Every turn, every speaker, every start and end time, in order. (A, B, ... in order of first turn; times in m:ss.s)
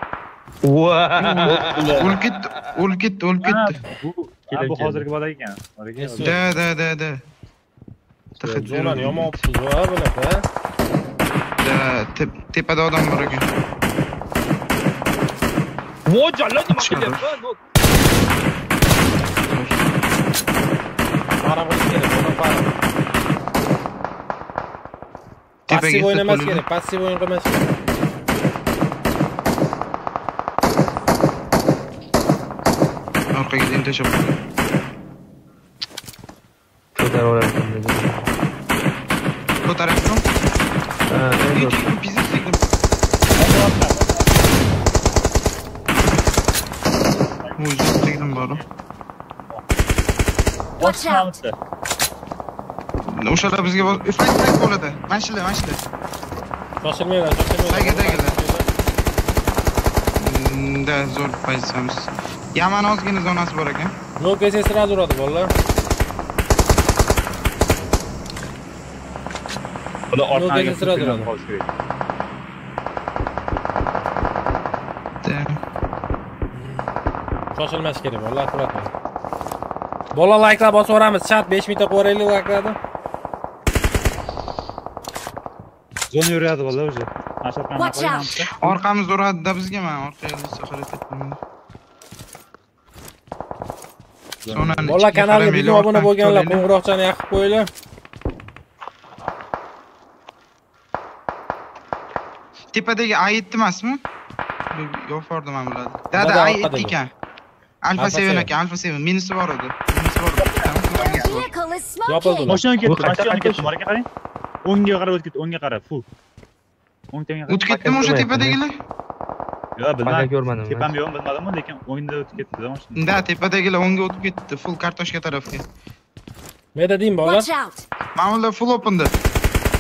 0:00.6-0:02.6 A
0:01.2-0:02.2 B
0:02.0-0:03.8 C
0:03.4-0:06.4 B
0:04.5-0:05.0 A
0:06.0-0:06.4 D
0:06.2-0:07.2 C
0:08.4-0:09.0 B
0:08.4-0:09.4 C
0:08.6-0:10.4 D
0:11.6-0:13.5 C
0:16.1-0:17.6 A
0:16.7-0:17.2 C
0:19.4-0:19.9 C
0:21.4-0:22.7 D
0:25.7-0:26.6 C
0:25.7-0:27.7 D
0:33.3-0:34.4 C
0:37.0-0:38.3 A
0:39.6-0:40.2 C
0:41.1-0:41.9 A
0:41.4-0:42.6 C
0:43.4-0:44.4 B
0:47.4-0:48.7 B
0:47.6-0:48.6 C
0:50.8-0:51.6 B
0:50.8-0:51.2 E
0:53.1-0:55.8 C
0:53.4-0:54.0 D
0:56.8-0:58.7 D
0:57.6-0:58.4 C
1:00.2-1:03.9 C
1:04.2-1:05.5 D
1:10.1-1:11.7 B
1:10.3-1:11.3 D
1:15.2-1:15.6 C
1:16.5-1:16.9 D
1:17.5-1:18.9 D
1:20.1-1:22.8 D
1:26.1-1:28.5 B
1:27.8-1:28.3 E
1:28.6-1:31.4 C
1:34.4-1:35.0 B
1:34.5-1:36.6 C
1:34.8-1:37.7 D
1:42.7-1:44.0 C
1:44.7-1:47.1 C
1:46.1-1:47.0 D
1:47.8-1:51.5 C
1:48.0-1:48.5 D
1:50.4-1:51.4 B
1:51.0-1:52.6 E
1:52.1-1:52.6 D
1:52.5-1:54.1 B
1:52.8-1:53.7 A
1:54.6-1:56.1 B
1:57.1-1:57.7 B
1:57.5-1:58.8 C
1:57.7-1:58.6 A
1:59.8-2:03.2 B
2:00.0-2:00.9 A
2:03.0-2:05.6 C
2:06.8-2:07.5 D
2:07.2-2:07.8 E
2:08.2-2:09.2 C